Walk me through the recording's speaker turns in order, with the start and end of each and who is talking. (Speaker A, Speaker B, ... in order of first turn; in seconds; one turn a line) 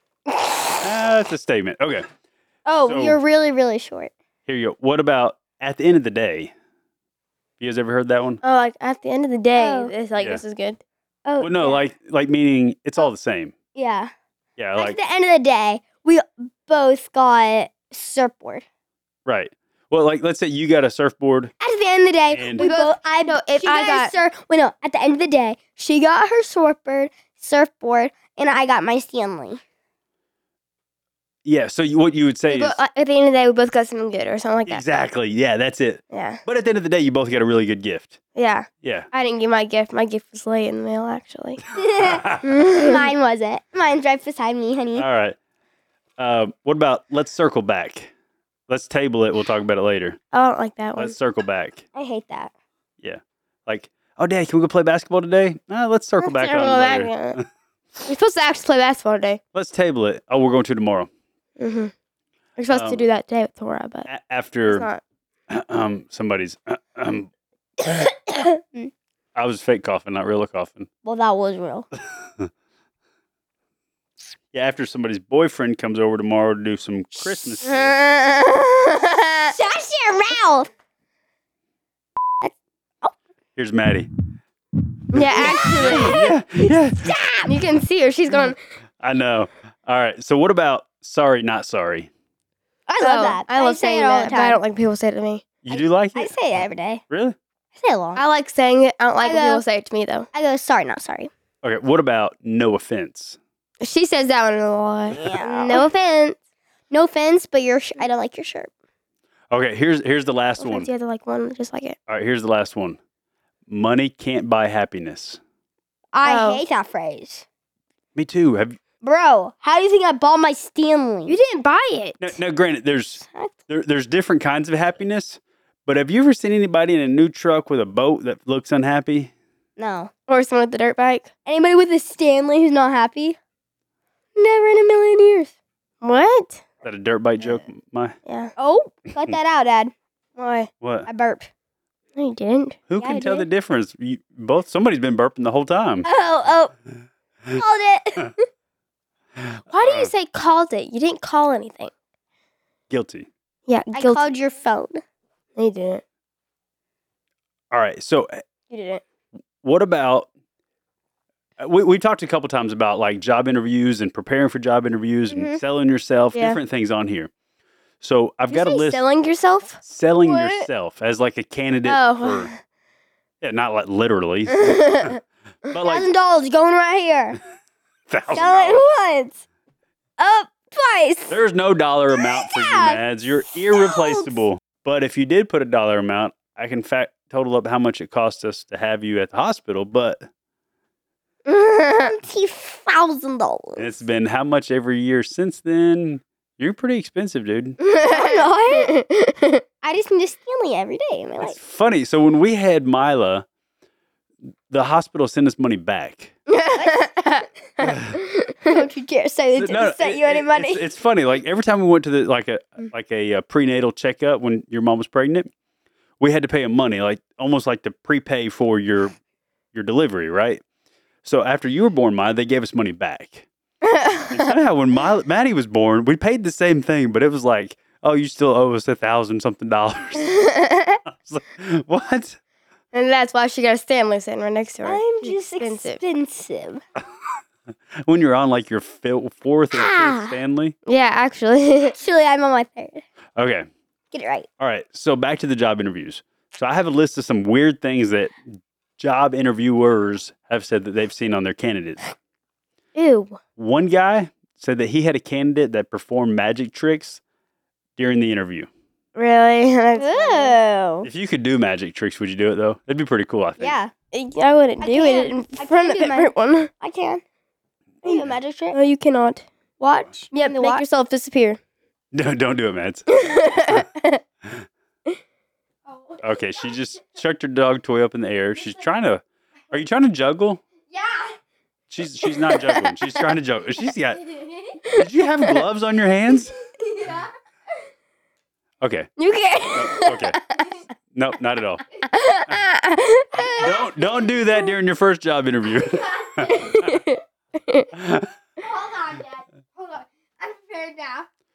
Speaker A: 0.8-2.0
Speaker B: 2.6-4.1
Speaker A: 2.8-3.2
Speaker A: 4.5-6.5
Speaker A: 7.6-8.4
Speaker C: 8.4-10.8
Speaker B: 9.6-9.9
Speaker B: 11.2-11.8
Speaker A: 11.4-13.5
Speaker B: 13.7-14.1
Speaker A: 14.6-15.0
Speaker B: 14.8-18.6
Speaker A: 19.2-21.5
Speaker B: 21.6-29.6
Speaker A: 22.3-22.6
Speaker C: 22.6-24.1
Speaker A: 31.4-32.8
Speaker C: 32.5-34.8
Speaker A: 34.6-38.2
Speaker C: 36.1-36.4
Speaker C: 38.4-41.6
Speaker A: 38.8-39.1
Speaker B: 41.7-45.1
Speaker A: 42.0-42.5
Speaker C: 42.4-43.1
Speaker A: 44.9-45.4
Speaker A: 46.2-48.1
Speaker A: 48.7-50.2
Speaker C: 50.3-51.1
Speaker A: 51.0-51.8
Speaker B: 51.9-52.5
Speaker A: 53.0-57.5
Speaker C: 56.2-57.4
Speaker C: 58.0-59.4
Speaker A: 59.5-61.1
Speaker C: 61.6-61.9
Speaker C: 62.6-64.1
Speaker A: 62.7-63.1
Speaker A: 64.0-64.9
Speaker C: 64.7-65.0
Speaker A: 65.5-67.3
Speaker A: 69.3-70.9
Speaker B: 71.0-71.9
Speaker A: 72.2-72.5
Speaker A: 74.5-77.9
Speaker C: 77.6-79.5
Speaker B: 79.5-80.7
Speaker B: 82.4-83.1
Speaker A: 83.5-84.1
Speaker C: 85.1-86.3
Speaker A: 85.1-87.2
Speaker B: 85.3-87.5
Speaker C: 87.5-88.6
Speaker A: 89.0-92.1
Speaker B: 92.9-94.6
Speaker C: 93.0-95.4
Speaker A: 95.6-96.3
Speaker B: 95.7-97.0
Speaker A: 97.1-97.4
Speaker B: 97.8-98.2
Speaker C: 98.2-100.3
Speaker B: 99.2-99.6
Speaker B: 100.3-101.3
Speaker A: 101.6-103.4
Speaker C: 103.8-106.4
Speaker B: 105.1-105.8
Speaker B: 106.9-108.7
Speaker A: 109.5-110.9
Speaker C: 110.6-112.0
Speaker A: 112.1-113.0
Speaker A: 113.7-115.4
Speaker B: 116.1-117.4
Speaker C: 116.2-116.6
Speaker A: 118.1-118.8
Speaker B: 119.0-121.3
Speaker C: 121.3-122.4
Speaker A: 122.2-129.3
Speaker B: 129.8-130.1
Speaker C: 130.3-131.3
Speaker B: 131.4-133.4
Speaker B: 134.3-135.5
Speaker C: 136.0-136.6
Speaker A: 136.8-138.2
Speaker C: 138.2-138.5
Speaker B: 138.6-139.9
Speaker C: 140.3-140.7
Speaker A: 140.8-141.1
Speaker B: 141.1-141.5
Speaker C: 142.2-142.8
Speaker A: 142.9-146.1
Speaker B: 143.0-143.5
Speaker B: 146.0-146.7
Speaker B: 147.5-148.4
Speaker A: 149.4-150.1
Speaker C: 149.7-151.9
Speaker A: 152.9-153.3
Speaker C: 153.7-154.3
Speaker B: 153.9-155.0
Speaker C: 155.6-156.0
Speaker A: 157.7-158.4
Speaker C: 158.7-159.0
Speaker A: 159.6-160.3
Speaker A: 161.6-167.3
Speaker B: 165.3-165.6
Speaker C: 166.3-166.6
Speaker A: 168.0-169.0
Speaker C: 168.5-170.7
Speaker A: 169.8-172.5
Speaker C: 171.8-172.6
Speaker A: 173.4-175.2
Speaker C: 174.5-175.2
Speaker A: 175.7-176.1
Speaker B: 175.8-177.4
Speaker A: 178.1-178.8
Speaker B: 178.3-179.4
Speaker B: 180.2-181.3
Speaker A: 181.3-190.2
Speaker B: 182.1-183.0
Speaker B: 183.7-184.4
Speaker B: 191.4-193.9
Speaker A: 193.8-197.8
Speaker C: 197.8-199.6
Speaker B: 198.1-198.9
Speaker B: 199.8-201.6
Speaker A: 201.4-203.4
Speaker A: 204.7-206.3
Speaker C: 206.5-208.8
Speaker B: 206.7-207.1
Speaker A: 207.8-208.2
Speaker B: 208.7-210.8
Speaker A: 209.5-215.5
Speaker A: 216.2-219.1
Speaker A: 219.7-220.6
Speaker A: 221.2-223.5
Speaker C: 223.8-224.5
Speaker A: 224.3-230.5
Speaker C: 230.2-231.0
Speaker A: 231.1-232.4
Speaker C: 232.9-236.0
Speaker B: 234.8-236.8
Speaker A: 238.0-240.7
Speaker B: 239.7-240.3
Speaker C: 240.8-242.0
Speaker B: 241.9-243.1
Speaker A: 243.3-243.7
Speaker B: 244.1-244.5
Speaker A: 244.6-248.4
Speaker A: 249.0-252.0
Speaker C: 252.9-253.4
Speaker A: 253.6-257.2
Speaker A: 258.0-258.7
Speaker C: 259.1-260.6
Speaker B: 260.0-261.1
Speaker A: 261.0-263.8
Speaker B: 263.6-263.9
Speaker C: 264.1-266.7
Speaker B: 264.8-267.2
Speaker B: 268.0-268.8
Speaker C: 268.7-269.4
Speaker B: 269.8-270.8
Speaker C: 270.3-271.6
Speaker A: 272.1-273.1
Speaker C: 273.1-274.2
Speaker B: 275.9-276.2
Speaker A: 276.2-280.6
Speaker B: 280.9-281.4
Speaker A: 281.9-284.2
Speaker C: 282.5-283.1
Speaker B: 284.4-284.8
Speaker A: 284.9-286.6
Speaker B: 286.8-287.3
Speaker A: 288.8-289.1
Speaker C: 289.2-290.7
Speaker A: 289.7-290.4
Speaker A: 291.1-291.8
Speaker C: 292.1-293.6
Speaker B: 293.3-293.7
Speaker A: 293.6-297.0
Speaker B: 296.2-296.7
Speaker C: 296.5-297.9
Speaker A: 297.9-298.3
Speaker B: 298.6-301.3